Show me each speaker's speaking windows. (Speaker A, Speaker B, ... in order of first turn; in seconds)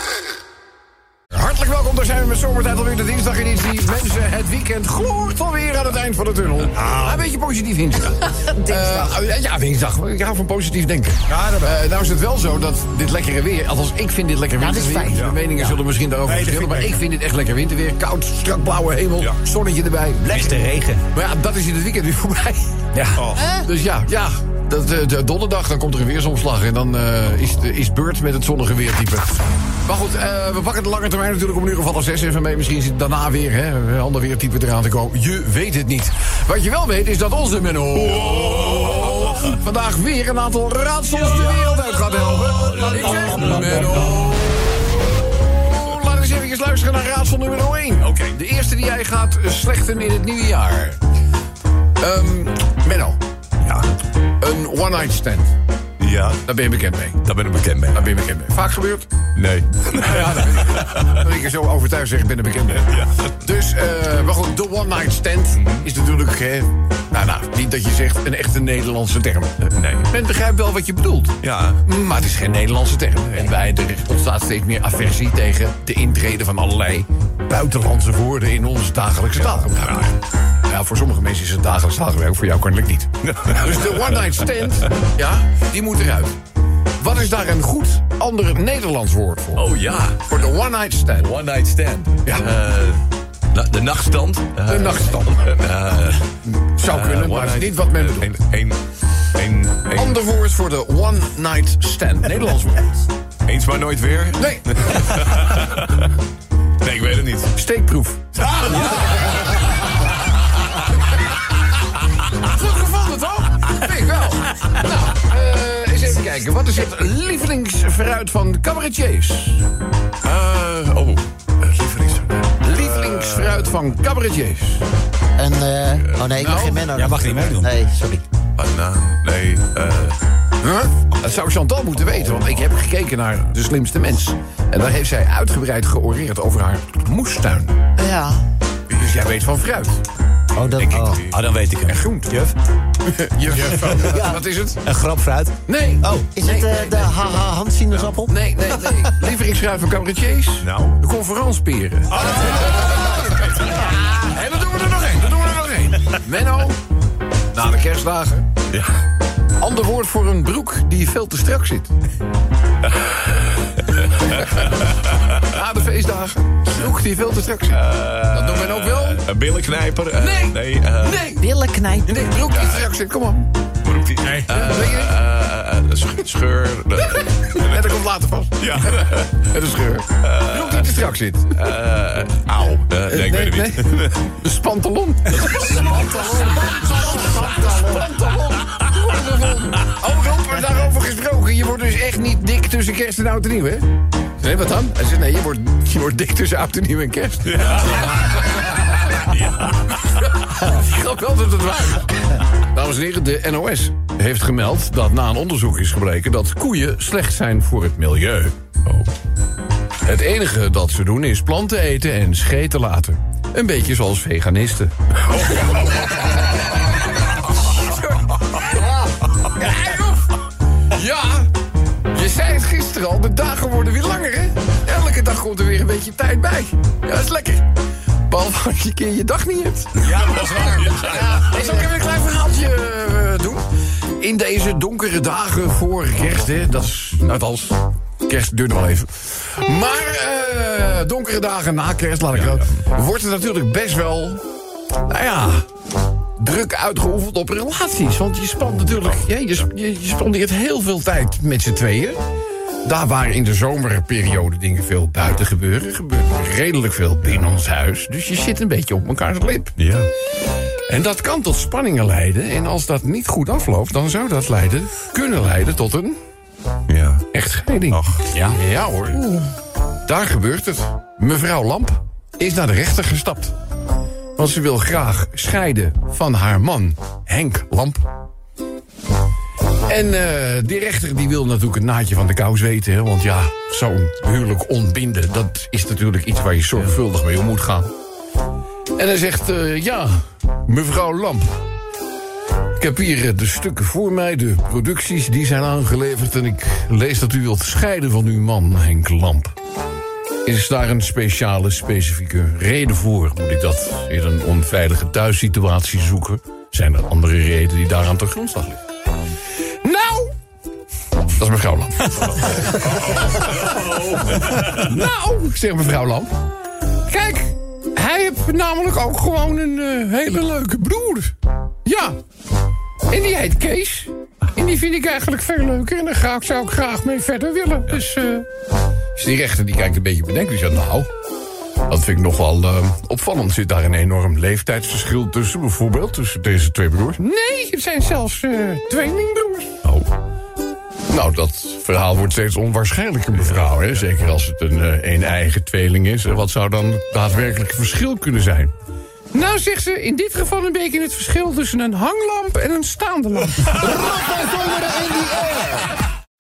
Speaker A: 1.3-20.6, 21.1-44.5, 45.3-51.0, 52.0-53.2, 54.4-55.5, 56.4-57.2, 57.9-59.1, 60.0-80.1, 80.6-86.4, 87.0-89.7, 90.3-91.3, 92.2-92.5, 94.6-95.6, 96.4-98.3, 99.9-103.0, 104.4-105.2, 107.5-108.8, 112.3-119.7, 122.6-124.8, 126.3-127.0, 130.6-137.8, 138.9-140.0, 141.8-142.4, 143.0-144.8, 145.6-147.1, 148.2-156.8, 157.5-158.4, 159.6-161.9, 165.3-169.2, 170.2-173.5, 174.5-175.2, 177.4-181.6, 183.1-198.6, 200.3-208.9, 210.0-216.3, 217.5-220.3, 220.9-221.5, 222.1-227.7, 228.3-244.4, 245.0-245.6, 246.4-252.2, 252.8-259.8, 260.9-266.2, 267.3-269.2, 270.1-273.6, 274.4-278.1, 279.8-287.9, 288.9-291.6, 292.8-299.5, 300.4-308.8, 309.8-310.3, 311.3-313.1, 314.4-316.3, 317.1-321.3, 321.8-322.2, 323.1-328.4, 329.1-331.1, 331.9-340.0, 341.1-348.7, 349.3-354.4
Speaker B: 8.4-9.2, 14.6-15.8, 23.3-23.6, 125.4-128.2, 138.0-138.4, 140.6-141.2, 144.0-144.4, 146.0-149.1, 171.4-172.2, 353.8-355.9
Speaker C: 11.3-11.8, 16.3-17.0, 20.2-21.0, 42.9-44.2, 126.9-127.8, 141.2-142.5, 143.6-143.9, 144.8-145.5, 230.3-231.0
Speaker D: 23.1-23.5, 38.2-39.3, 48.0-48.4, 53.6-54.0, 56.0-56.5, 57.2-58.2, 59.4-61.3, 62.7-63.3, 65.6-65.9, 69.7-70.1, 71.4-71.8, 79.3-80.2, 83.3-84.9, 89.5-90.6, 91.2-96.3, 96.8-100.2, 103.5-106.1, 106.8-107.5, 108.5-109.1, 120.2-123.9, 125.9-126.3, 127.2-127.6, 128.6-130.2, 140.6-141.5, 150.6-151.0, 152.2-152.7, 163.0-165.4, 167.7-171.3, 172.5-172.8, 173.8-177.9, 178.6-179.5, 180.2-180.9, 181.5-184.3, 185.4-186.1, 197.5-198.2, 199.2-199.7, 230.8-231.3, 242.3-242.8, 248.8-249.3, 259.8-260.1, 266.9-267.2, 267.9-268.2